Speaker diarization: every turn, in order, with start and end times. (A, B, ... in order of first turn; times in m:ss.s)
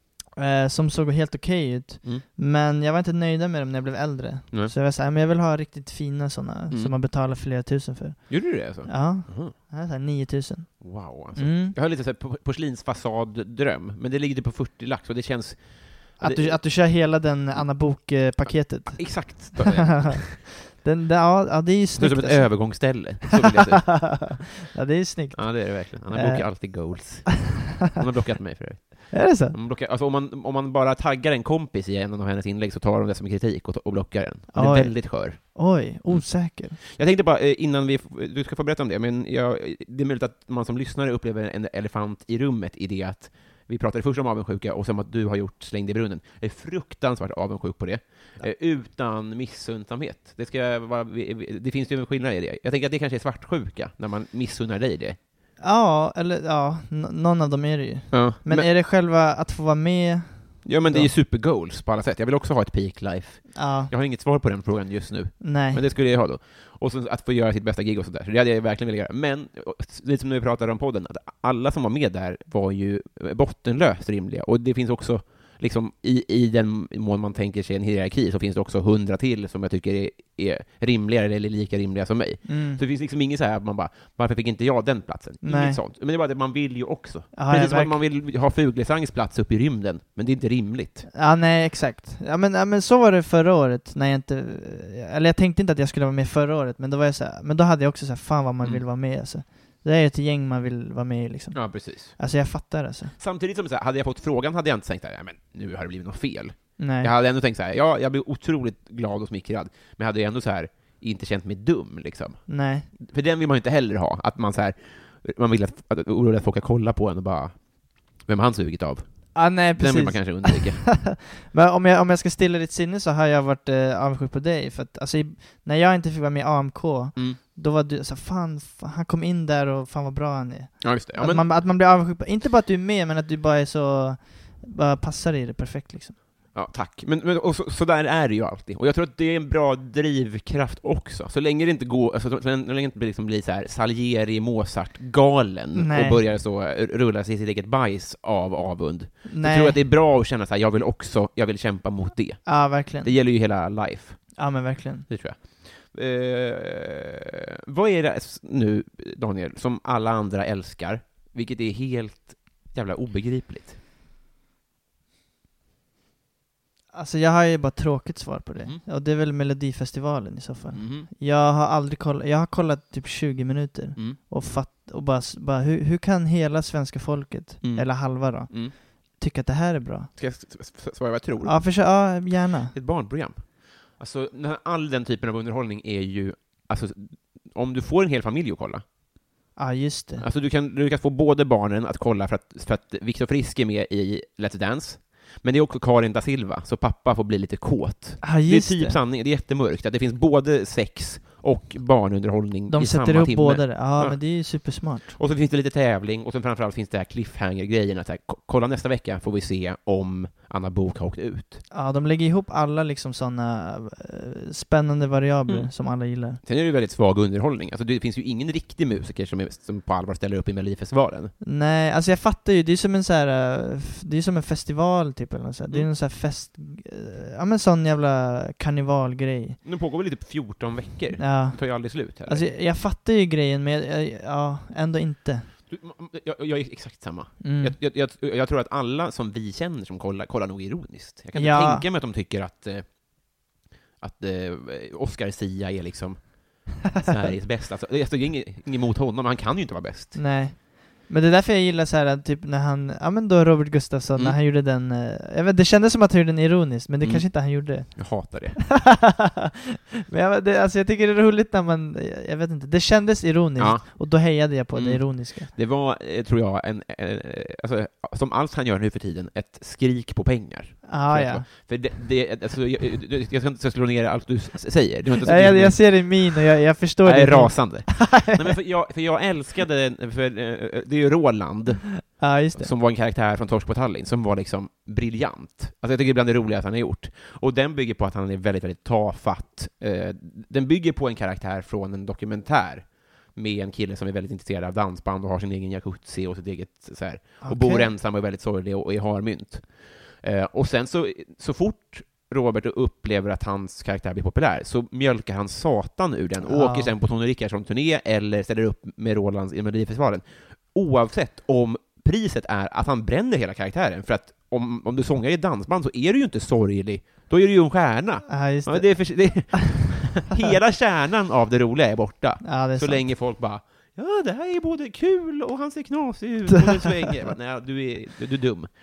0:00.3-0:11.8 A
0:08.3-0:09.5 B
0:10.8-0:17.0 B
0:16.2-0:27.2 A
0:17.5-0:20.3 B
0:22.0-0:24.4 B
0:25.3-0:55.2 B
0:29.1-0:29.6 A
0:34.5-0:36.8 A
0:55.6-1:01.1 A
0:58.1-0:58.7 B
1:00.6-1:31.1 B
1:03.5-1:03.9 A
1:05.4-1:05.8 A
1:22.4-1:22.8 A
1:25.4-1:25.8 A
1:27.3-1:28.0 A
1:31.1-1:43.1 A
1:38.6-1:38.8 B
1:41.5-1:42.2 B
1:43.2-2:01.1 B
1:46.8-1:47.1 A
1:52.5-1:52.9 A
1:59.3-2:16.2 A
2:10.8-2:11.6 B
2:16.5-2:43.8 B
2:25.7-2:26.2 A
2:29.2-2:29.8 A
2:32.4-2:33.2 A
2:34.4-2:35.1 A
2:46.9-3:00.1 A
2:50.7-2:51.1 B
2:57.6-2:58.7 B
3:00.2-3:08.8 B
3:01.4-3:02.7 A
3:09.6-3:10.2 A
3:10.2-3:31.6 B
3:18.2-3:19.0 A
3:22.7-3:25.1 A
3:31.7-3:36.4 A
3:35.5-3:41.3 B
3:41.4-3:49.6 A
3:49.6-3:52.5 B
3:51.2-3:55.5 A
3:55.7-4:03.5 B
3:57.4-3:57.8 A
4:01.3-4:01.9 A
4:04.0-4:10.2 B
4:10.1-4:19.2 A
4:17.0-4:18.8 B
4:20.1-4:25.5 A
4:23.6-4:36.4 B
4:30.8-4:31.7 A
4:35.2-4:38.5 A
4:37.0-5:28.7 B
4:42.2-4:42.7 A
4:57.4-4:57.9 A
5:06.4-5:06.9 A
5:18.3-5:19.6 A
5:22.4-5:23.1 A